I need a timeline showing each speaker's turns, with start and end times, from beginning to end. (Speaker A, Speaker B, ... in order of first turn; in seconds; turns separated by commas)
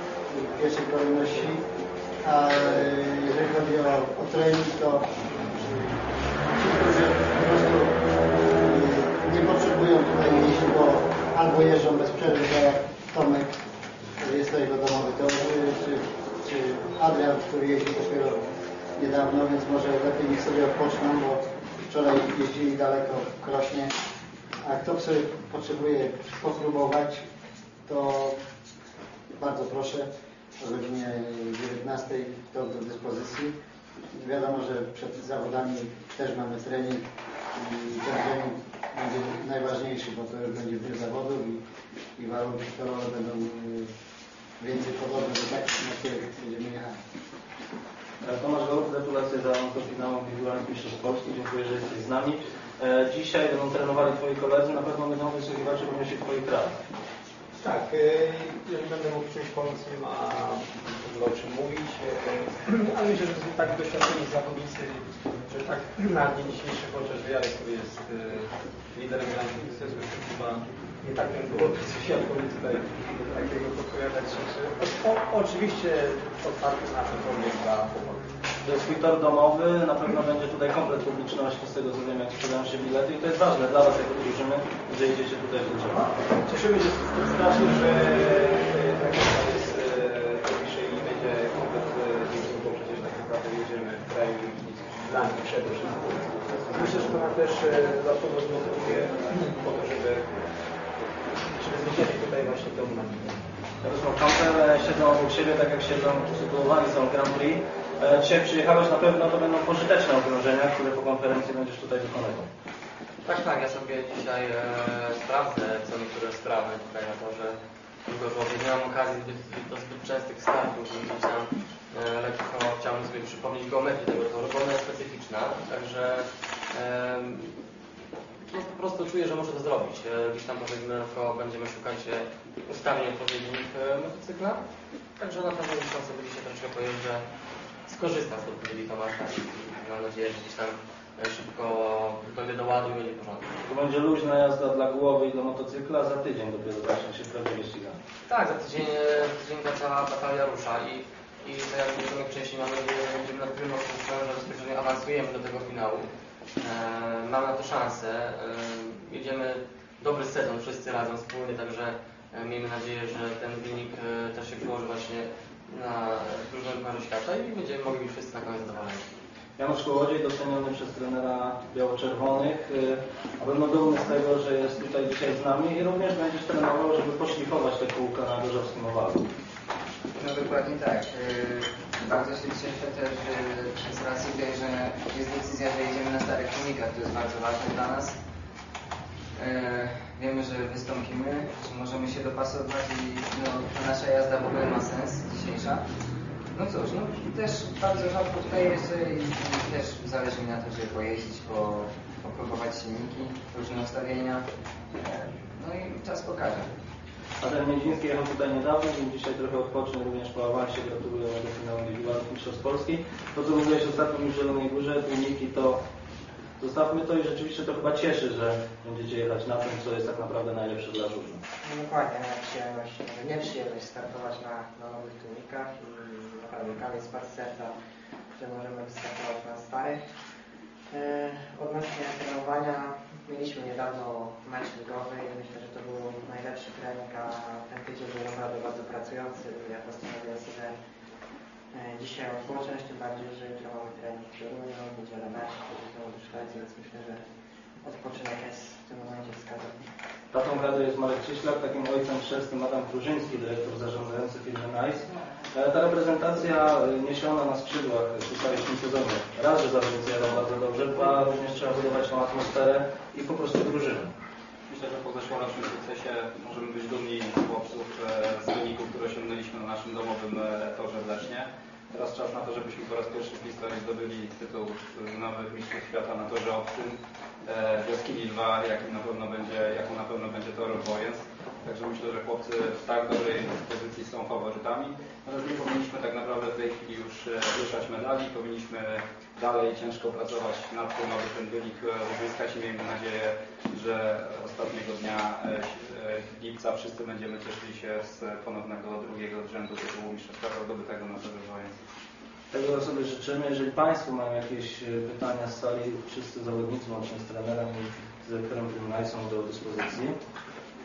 Speaker A: 0.3-1.6, Speaker A: 2.2-8.0, Speaker A: 8.6-13.6, Speaker A: 14.2-18.4, Speaker A: 19.0-23.9, Speaker A: 24.6-27.3, Speaker A: 27.9-28.4, Speaker A: 29.3-30.1, Speaker A: 30.6-33.5, Speaker A: 34.1-41.6, Speaker A: 42.2-43.9, Speaker A: 44.6-47.0, Speaker B: 48.2-56.8, Speaker C: 57.6-78.2, Speaker B: 78.6-86.1, Speaker C: 86.5-100.5, Speaker C: 101.6-103.4, Speaker B: 103.8-112.5, Speaker D: 113.2-127.6, Speaker D: 128.5-134.6, Speaker D: 135.2-137.2, Speaker D: 137.9-143.5, Speaker B: 143.7-148.0, Speaker D: 148.3-156.1, Speaker D: 156.6-169.0, Speaker B: 169.6-179.2, Speaker E: 180.2-188.2, Speaker E: 189.3-195.8, Speaker E: 196.5-204.5, Speaker E: 205.0-206.7, Speaker B: 207.4-215.8, Speaker B: 216.6-221.4, Speaker F: 221.6-227.7, Speaker F: 228.4-230.0, Speaker F: 230.9-240.8, Speaker F: 241.7-247.2, Speaker F: 247.8-249.7, Speaker B: 250.3-264.1, Speaker G: 264.7-301.8, Speaker B: 302.5-310.1